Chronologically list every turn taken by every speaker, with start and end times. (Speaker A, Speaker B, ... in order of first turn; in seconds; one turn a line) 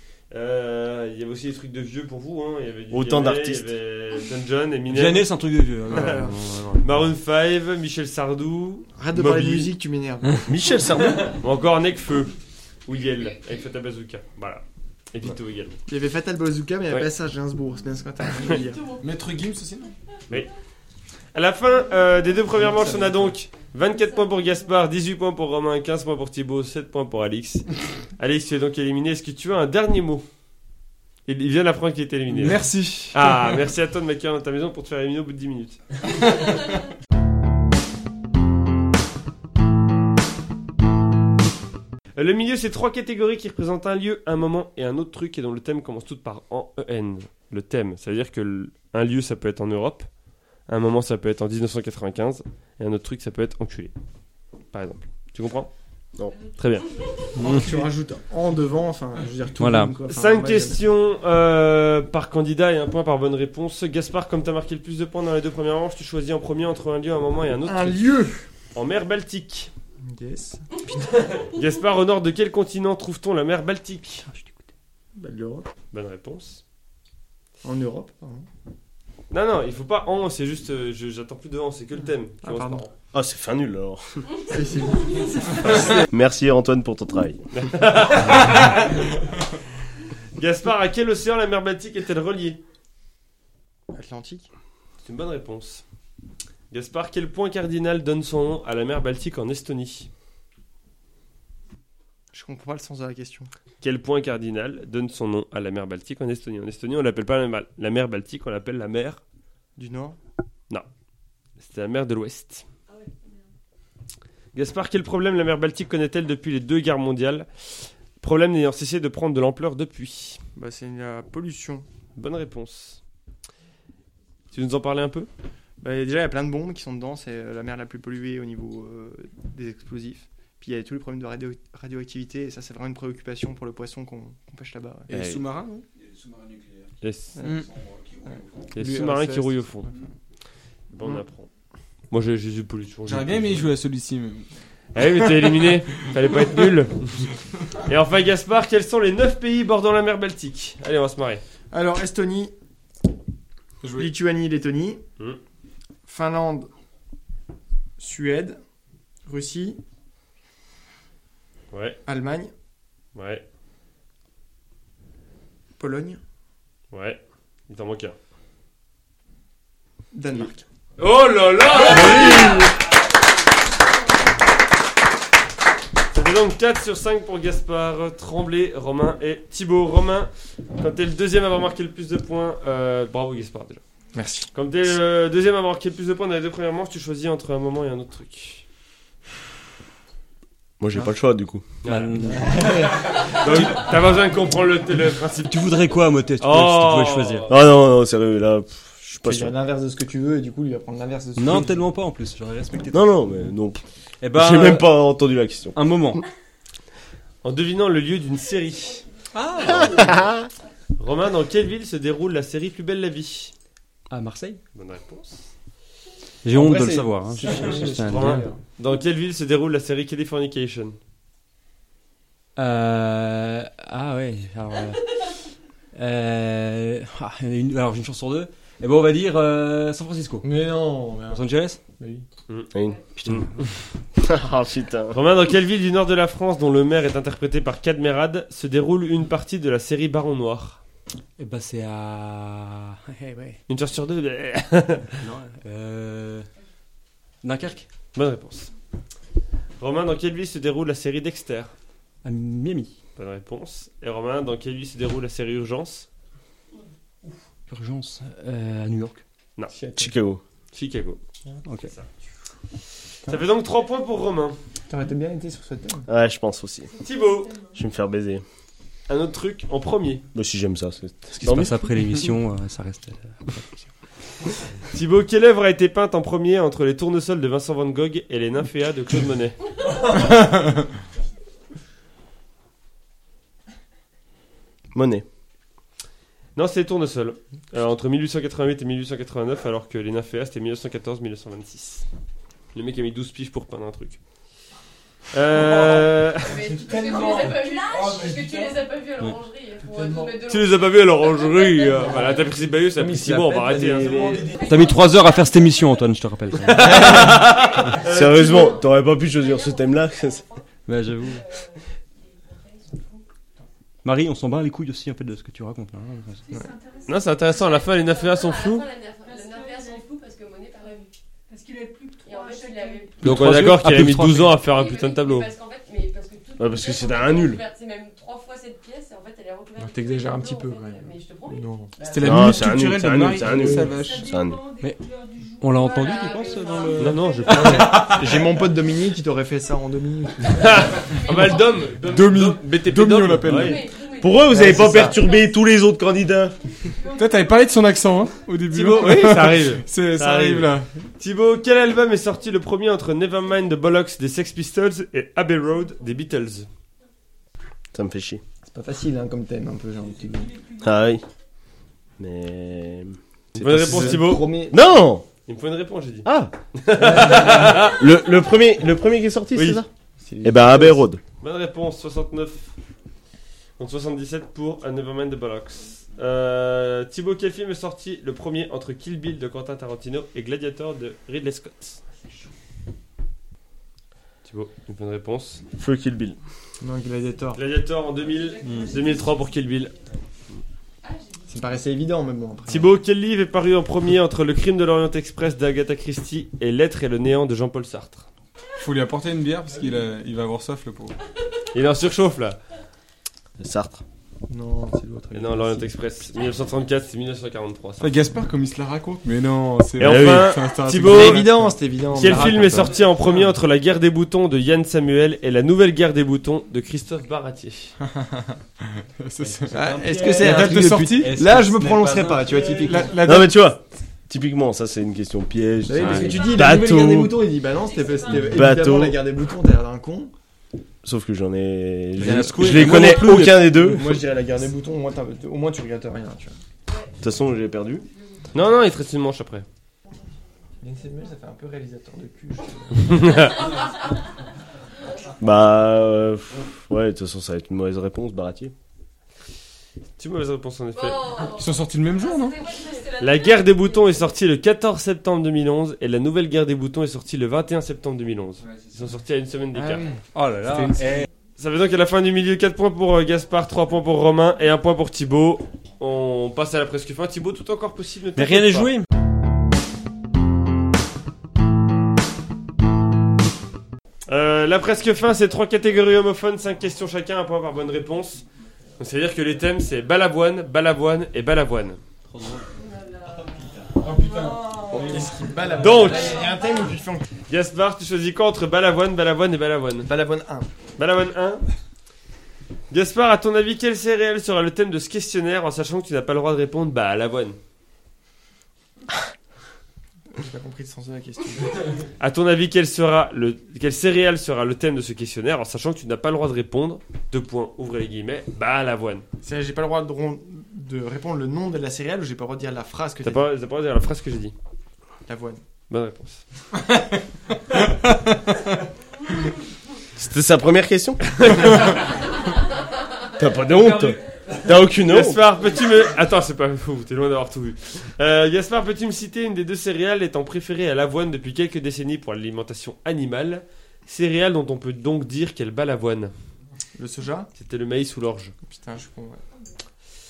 Speaker A: 0.3-5.3
Speaker B: 2.9-3.7
Speaker C: 4.9-6.9
Speaker A: 5.9-6.2
Speaker D: 5.9-6.3
Speaker A: 6.8-9.7
Speaker D: 9.0-10.5
Speaker B: 10.5-11.4
Speaker A: 11.1-12.3
Speaker A: 12.9-15.8
Speaker D: 15.9-18.9
Speaker E: 18.4-19.1
Speaker F: 19.0-19.9
Speaker A: 21.3-30.2
Speaker A: 31.3-35.8
Speaker F: 32.3-33.6
Speaker A: 42.2-50.1
Speaker A: 50.7-53.9
Speaker A: 54.7-55.7
Speaker A: 56.6-56.9
Speaker C: 57.4-57.9
Speaker D: 57.4-60.8
Speaker C: 59.6-60.0
Speaker A: 60.1-68.0
Speaker D: 67.7-68.5
Speaker A: 68.7-69.7
Speaker D: 70.0-70.6
Speaker A: 70.9-74.3
Speaker C: 74.3-74.5
Speaker D: 75.2-75.7
Speaker A: 75.9-76.6
Speaker D: 77.6-78.5
Speaker A: 79.3-82.9
Speaker D: 82.4-82.8
Speaker B: 83.1-84.3
Speaker D: 84.5-85.9
Speaker B: 85.6-87.4
Speaker A: 87.5-89.0
Speaker A: 90.4-92.6
Speaker D: 93.9-94.5
Speaker A: 95.0-95.8
Speaker A: 96.7-100.1
Speaker D: 102.3-103.5
Speaker A: 103.8-109.2
Speaker D: 109.8-110.2
Speaker A: 111.6-112.7
Speaker E: 112.9-113.4
Speaker A: 114.5-120.4
Speaker D: 120.6-121.9
Speaker A: 122.2-123.0
Speaker A: 124.5-125.3
Speaker D: 125.8-135.1
Speaker F: 135.1-135.8
Speaker A: 137.0-137.4
Speaker D: 137.4-137.7
Speaker F: 137.4-137.7
Speaker A: 138.7-139.9
Speaker F: 138.8-139.8
Speaker A: 140.9-141.5
Speaker A: 142.1-143.7
Speaker F: 143.1-144.5
Speaker A: 144.9-151.4
Speaker D: 151.7-152.5
Speaker F: 153.8-154.1
Speaker D: 154.0-155.0
Speaker D: 156.1-156.7
Speaker D: 158.0-158.6
Speaker D: 159.3-159.8
Speaker A: 161.7-162.0
Speaker D: 162.1-162.5
Speaker A: 163.2-163.4
Speaker D: 165.8-166.2
Speaker A: 166.9-168.2
Speaker D: 170.1-170.6
Speaker A: 171.0-172.7
Speaker B: 171.9-172.6
Speaker A: 176.1-183.8
Speaker D: 184.1-184.5
Speaker A: 184.5-188.6
Speaker B: 190.8-191.7
Speaker A: 191.8-195.7
Speaker C: 191.8-192.9
Speaker D: 192.3-193.2
Speaker C: 195.4-197.6
Speaker A: 196.4-197.6
Speaker B: 197.5-199.6
Speaker D: 199.2-201.8
Speaker C: 201.4-203.1
Speaker B: 202.9-205.8
Speaker C: 204.2-204.9
Speaker C: 205.8-206.2
Speaker A: 207.4-209.0
Speaker C: 209.3-210.3
Speaker B: 209.9-210.3
Speaker A: 211.0-213.5
Speaker C: 214.1-214.6
Speaker A: 214.8-215.5
Speaker C: 216.4-218.5
Speaker D: 216.5-218.6
Speaker A: 217.5-221.0
Speaker C: 222.6-225.0
Speaker C: 225.9-230.4
Speaker D: 230.4-231.4
Speaker C: 231.3-231.8
Speaker D: 232.0-232.2
Speaker B: 232.7-233.5
Speaker C: 233.2-233.7
Speaker B: 234.2-235.2
Speaker A: 235.1-240.8
Speaker C: 241.4-243.6
Speaker A: 243.7-245.2
Speaker C: 245.2-246.5
Speaker C: 247.4-247.9
Speaker A: 248.2-248.7
Speaker A: 249.8-251.7
Speaker C: 252.2-253.0
Speaker A: 253.2-256.1
Speaker C: 257.7-259.2
Speaker D: 259.7-260.1
Speaker B: 260.0-260.4
Speaker A: 260.7-261.2
Speaker C: 261.6-261.9
Speaker A: 263.2-264.6
Speaker D: 264.9-266.1
Speaker B: 266.1-266.9
Speaker A: 267.0-267.5
Speaker B: 267.7-268.4
Speaker A: 269.1-270.2
Speaker B: 270.3-271.8
Speaker C: 271.4-273.9
Speaker A: 274.9-279.6
Speaker B: 284.9-285.2
Speaker A: 286.6-292.1
Speaker A: 292.7-294.2
Speaker A: 295.3-296.6
Speaker E: 296.4-302.4
Speaker A: 300.5-304.5
Speaker B: 303.1-303.9
Speaker D: 303.1-304.3
Speaker E: 304.6-305.0
Speaker C: 304.6-307.4
Speaker A: 306.6-308.8
Speaker B: 307.0-307.3
Speaker E: 307.8-310.6
Speaker B: 308.0-310.4
Speaker C: 310.9-311.4
Speaker E: 311.2-313.2
Speaker C: 314.0-316.5
Speaker G: 316.5-317.4
Speaker A: 317.1-318.9
Speaker E: 317.5-321.1
Speaker G: 319.2-320.1
Speaker G: 321.5-323.2
Speaker E: 322.2-323.4
Speaker C: 323.2-324.6
Speaker A: 323.2-325.5
Speaker E: 324.6-332.3
Speaker B: 326.6-327.6
Speaker D: 329.8-331.9
Speaker F: 332.0-334.3
Speaker B: 332.2-334.6
Speaker D: 333.4-333.9
Speaker G: 333.9-337.6
Speaker C: 335.6-337.6
Speaker E: 335.8-338.1
Speaker A: 337.0-338.1
Speaker D: 337.5-340.7
Speaker F: 337.9-338.2
Speaker A: 340.5-343.8
Speaker E: 340.9-342.1
Speaker F: 342.0-343.9
Speaker E: 343.4-345.6
Speaker B: 344.2-346.6
Speaker D: 344.5-345.1
Speaker A: 344.7-345.1
Speaker F: 347.1-350.9
Speaker G: 347.2-347.6
Speaker A: 348.7-356.7
Speaker B: 357.9-358.4
Speaker D: 358.7-360.6
Speaker B: 360.8-361.2
Speaker B: 362.2-365.2
Speaker A: 363.6-364.5
Speaker D: 363.7-364.8
Speaker A: 365.5-368.0
Speaker B: 366.2-366.5
Speaker D: 367.0-367.9
Speaker B: 367.8-369.9
Speaker A: 369.6-369.8
Speaker D: 370.2-371.0
Speaker B: 370.4-371.2
Speaker A: 371.4-372.7
Speaker A: 373.8-382.0
Speaker A: 384.4-385.6
Speaker B: 385.8-386.4
Speaker D: 386.8-387.6
Speaker A: 387.6-389.9
Speaker E: 388.4-389.3
Speaker E: 391.0-391.5
Speaker D: 391.5-392.9
Speaker A: 392.7-398.2
Speaker F: 398.8-401.1
Speaker A: 401.7-402.6
Speaker B: 403.6-404.0
Speaker D: 404.5-405.9
Speaker A: 405.3-408.1
Speaker F: 408.0-411.8
Speaker A: 410.0-411.5
Speaker D: 411.0-413.0
Speaker A: 412.1-417.9
Speaker F: 412.3-412.8
Speaker F: 418.1-419.8
Speaker C: 419.4-423.1
Speaker D: 419.7-423.2
Speaker F: 420.4-421.4
Speaker F: 422.7-423.5
Speaker B: 423.2-427.5
Speaker D: 425.9-430.3
Speaker E: 426.3-426.7
Speaker E: 427.7-428.6
Speaker B: 428.3-429.2
Speaker B: 431.0-434.2
Speaker C: 432.2-434.0
Speaker D: 432.2-436.6
Speaker B: 437.2-438.1
Speaker A: 438.5-439.7
Speaker D: 440.8-443.4
Speaker A: 443.0-443.7
Speaker E: 443.4-443.9
Speaker B: 445.4-448.7
Speaker A: 450.2-451.4
Speaker E: 451.0-454.3
Speaker F: 451.5-452.6
Speaker A: 453.2-460.1
Speaker C: 459.7-461.3
Speaker F: 460.8-461.2
Speaker A: 461.6-468.9
Speaker C: 468.4-469.1
Speaker A: 474.3-478.4
Speaker A: 479.0-482.0
Speaker C: 482.3-482.6
Speaker E: 482.7-485.2
Speaker F: 484.0-484.6
Speaker D: 484.9-487.3
Speaker A: 485.8-486.5
Speaker E: 486.0-486.9
Speaker A: 487.5-490.1
Speaker D: 490.1-490.7
Speaker A: 491.0-491.6
Speaker A: 492.9-497.6
Speaker D: 500.3-501.9
Speaker A: 502.2-509.2
Speaker D: 509.4-513.5
Speaker A: 513.2-514.5
Speaker D: 515.3-515.6
Speaker A: 515.9-516.4
Speaker B: 520.1-521.7
Speaker A: 521.4-522.0
Speaker B: 523.4-525.4
Speaker A: 525.0-536.3
Speaker D: 537.0-537.5
Speaker A: 537.6-538.5
Speaker D: 538.7-539.4